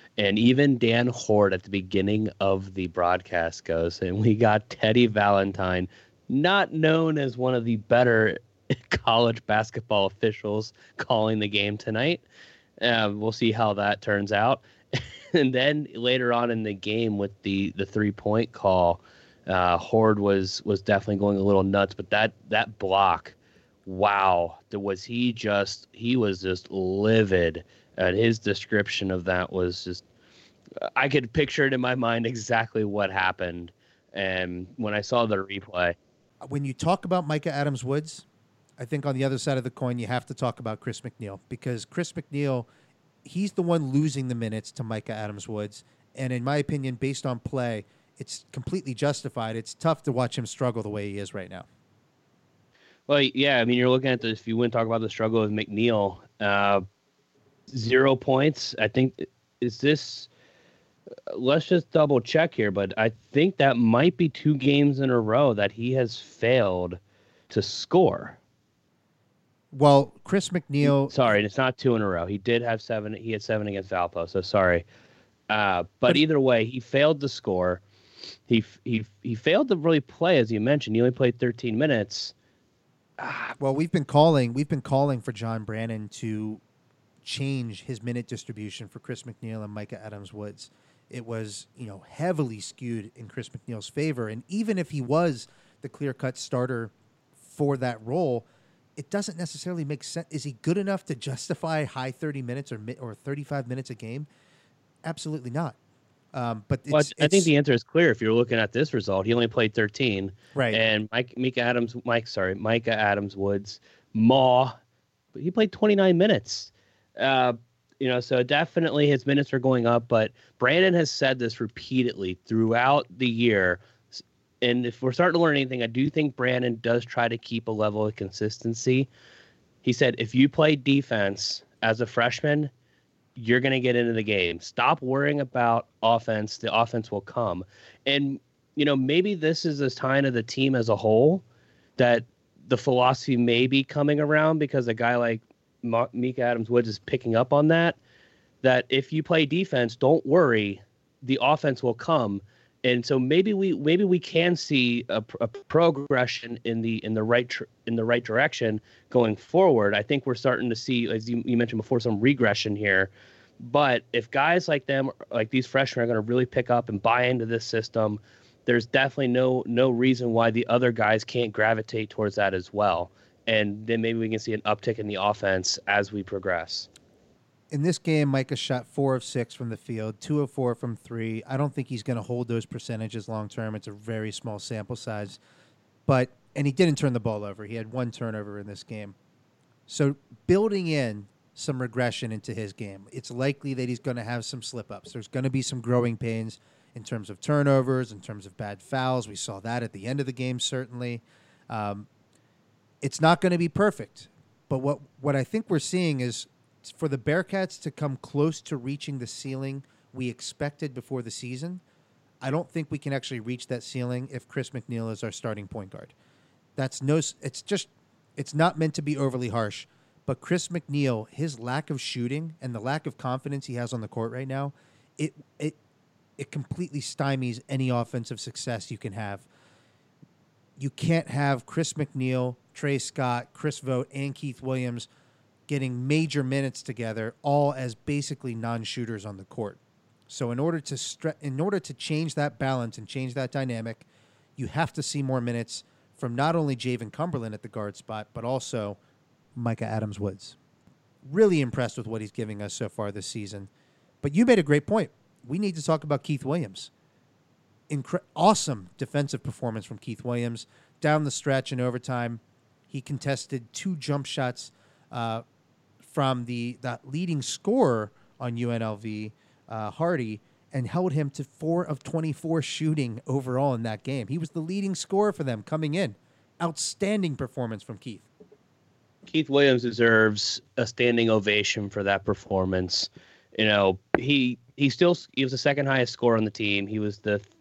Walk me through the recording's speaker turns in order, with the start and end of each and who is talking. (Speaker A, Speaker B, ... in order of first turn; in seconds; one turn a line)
Speaker A: 0.2-12.2
Speaker A: 12.8-30.0
Speaker A: 31.0-36.0
Speaker B: 36.5-38.2
Speaker B: 38.8-42.7
Speaker B: 43.2-51.7
Speaker A: 53.1-56.8
Speaker A: 57.7-60.3
Speaker A: 61.3-68.4
Speaker B: 69.7-71.3
Speaker A: 70.8-74.8
Speaker A: 75.5-77.8
Speaker A: 78.5-82.3
Speaker A: 83.2-83.5
Speaker B: 83.6-86.6
Speaker B: 87.2-104.3
Speaker B: 105.0-105.8
Speaker B: 106.3-107.5
Speaker A: 106.9-114.8
Speaker B: 110.5-110.8
Speaker A: 115.3-123.8
Speaker A: 124.6-129.1
Speaker A: 129.8-132.7
Speaker A: 133.4-141.4
Speaker A: 142.0-148.0
Speaker A: 148.6-176.9
Speaker B: 177.7-185.4
Speaker B: 186.1-189.2
Speaker B: 189.9-202.1
Speaker B: 203.0-211.8
Speaker B: 212.4-216.1
Speaker B: 216.8-225.8
Speaker B: 226.4-229.5
Speaker B: 230.8-235.1
Speaker B: 235.7-244.1
Speaker B: 244.6-249.0
Speaker B: 249.6-250.6
Speaker B: 251.2-253.7
Speaker B: 254.2-256.9
Speaker B: 257.9-265.4
Speaker B: 266.0-278.3
Speaker A: 279.3-287.4